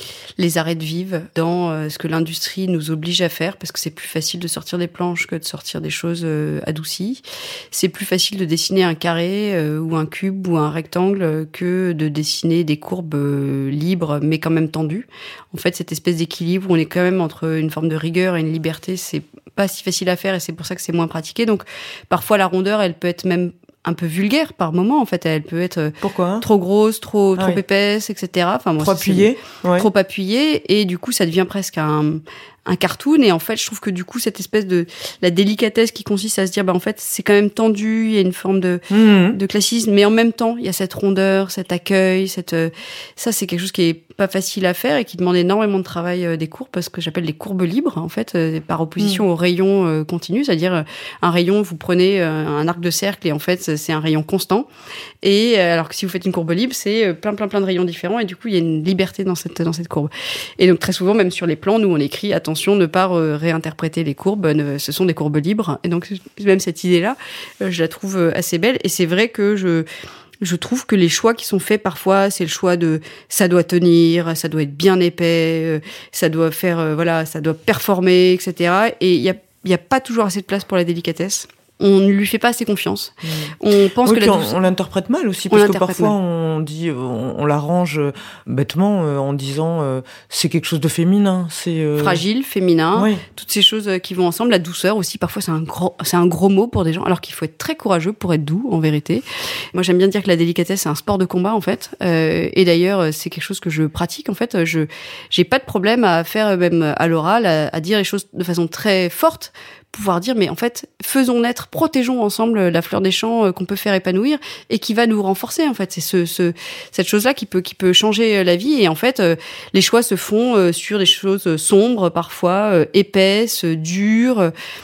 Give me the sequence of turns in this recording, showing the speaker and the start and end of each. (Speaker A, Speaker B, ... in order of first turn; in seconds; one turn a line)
Speaker A: 0.4-54.7
Speaker B: 26.0-26.5
Speaker B: 28.8-29.9
Speaker B: 38.9-39.4
Speaker A: 55.2-69.9
Speaker A: 70.4-84.6
Speaker B: 83.2-92.2
Speaker A: 85.5-86.1
Speaker A: 92.0-124.5
Speaker B: 93.0-93.2